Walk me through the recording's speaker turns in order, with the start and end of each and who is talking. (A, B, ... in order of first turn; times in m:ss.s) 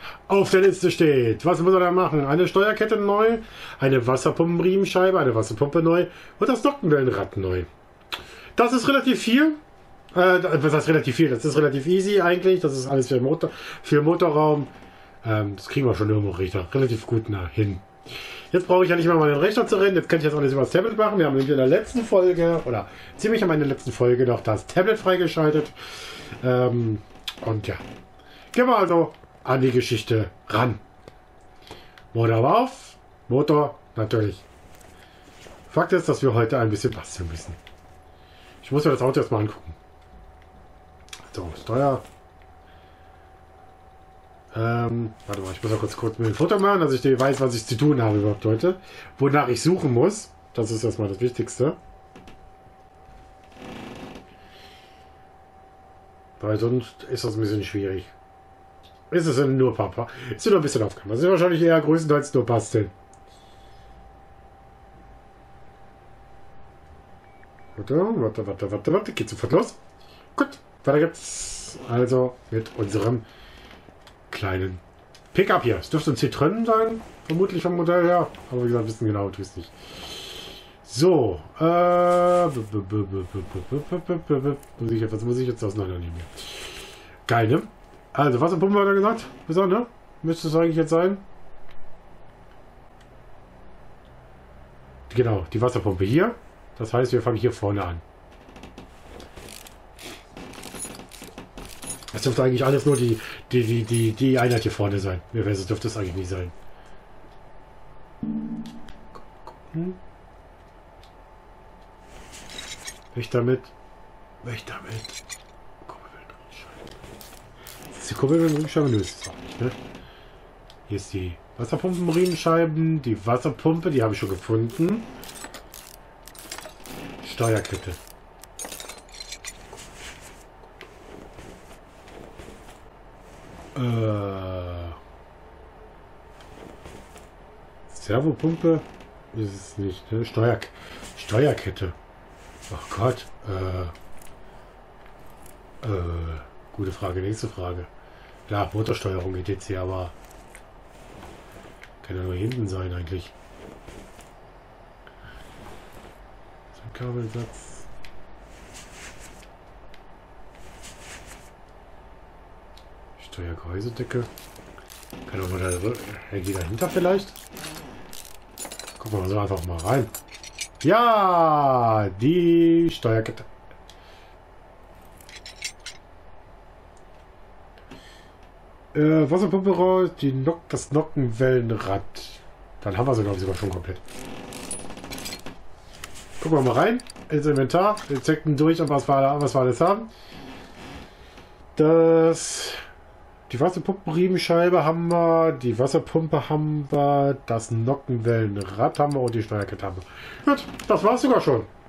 0:00.3-0:07.7 A
0:08.6-0:09.6 A
0:10.1-0:14.7 A
0:15.2-0:27.8 A
0:28.5-0:30.8 A
0:32.1-0:34.5 A
0:35.7-0:37.6 A
0:38.6-0:39.8 A
0:41.3-0:42.0 A
0:44.5-0:51.8 A
0:56.4-0:58.1 A
0:59.1-1:02.9 A
1:07.8-1:09.8 A
1:10.4-1:13.3 A
1:14.3-1:14.8 A
1:15.3-1:31.2 A
1:35.1-1:38.0 A
1:42.1-1:46.6 A
1:49.3-1:50.0 A
1:53.1-1:53.7 A
1:54.4-1:55.2 A
1:55.8-1:57.0 A
1:57.9-1:59.8 A
2:00.9-2:05.1 A
2:07.2-2:08.0 A
2:13.8-2:15.0 A
2:17.9-2:22.0 A
2:22.7-2:23.9 A
2:25.8-2:27.9 A
2:28.5-2:30.2 A
2:32.0-2:33.4 A
2:36.7-2:37.9 A
2:43.2-2:44.3 A
2:45.3-2:47.4 A
2:49.0-2:50.1 A
2:50.8-2:53.5 A
2:58.9-3:04.0 A
3:06.4-3:10.1 A
3:11.8-3:12.8 A
3:13.5-3:21.7 A